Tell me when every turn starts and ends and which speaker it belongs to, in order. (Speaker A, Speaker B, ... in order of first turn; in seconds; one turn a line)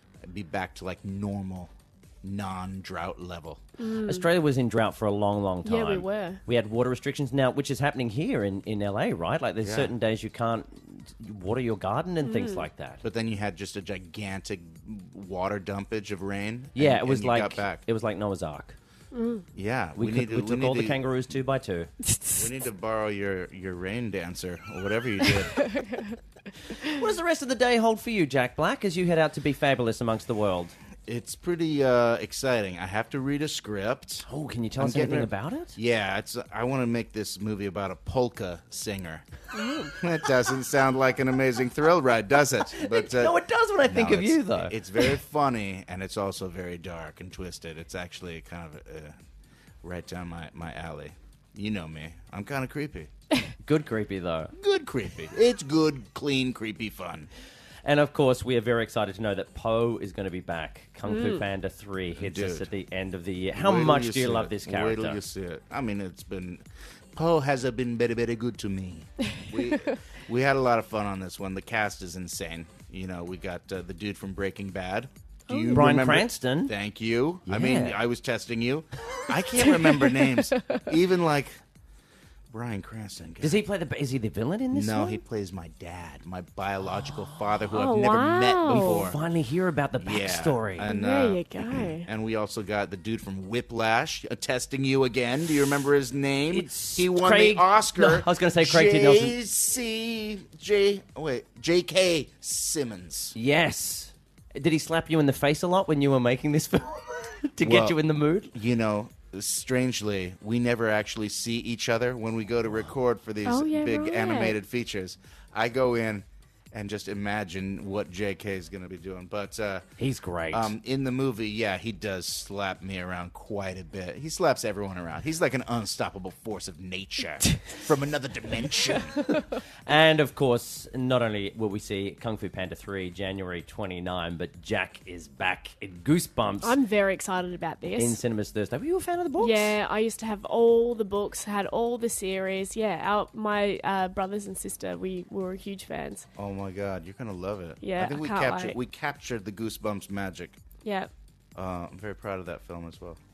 Speaker A: 0.2-3.6
Speaker B: 3.8-4.3
Speaker C: 4.0-13.0
Speaker B: 5.6-6.4
Speaker A: 9.6-9.9
Speaker B: 12.2-12.7
Speaker A: 13.0-17.8
Speaker C: 16.7-18.8
Speaker B: 19.1-19.5
Speaker A: 19.5-21.1
Speaker C: 20.0-21.9
Speaker B: 22.1-22.5
Speaker A: 22.4-25.6
Speaker B: 25.3-26.1
Speaker C: 26.9-30.7
Speaker A: 31.1-39.2
Speaker C: 34.2-35.8
Speaker B: 39.5-39.9
Speaker A: 40.0-49.2
Speaker C: 42.7-44.8
Speaker A: 49.8-53.1
Speaker C: 53.6-54.5
Speaker A: 54.5-57.3
Speaker C: 57.8-65.2
Speaker B: 61.0-61.5
Speaker A: 62.1-62.7
Speaker A: 63.5-81.6
Speaker B: 75.5-76.0
Speaker C: 75.7-76.7
Speaker C: 77.5-78.0
Speaker B: 79.8-80.8
Speaker A: 82.5-83.6
Speaker C: 83.4-85.2
Speaker A: 84.7-89.2
Speaker B: 87.7-89.1
Speaker C: 88.7-90.9
Speaker A: 90.0-103.3
Speaker B: 90.8-92.1
Speaker C: 96.5-99.3
Speaker C: 103.3-108.5
Speaker A: 107.6-108.0
Speaker A: 108.5-119.9
Speaker B: 113.4-114.6
Speaker C: 120.0-120.7
Speaker A: 120.5-129.2
Speaker C: 129.8-136.8
Speaker B: 136.6-138.2
Speaker C: 137.9-139.8
Speaker B: 139.4-146.3
Speaker A: 146.3-150.6
Speaker B: 147.8-148.8
Speaker B: 150.8-151.1
Speaker A: 151.6-153.2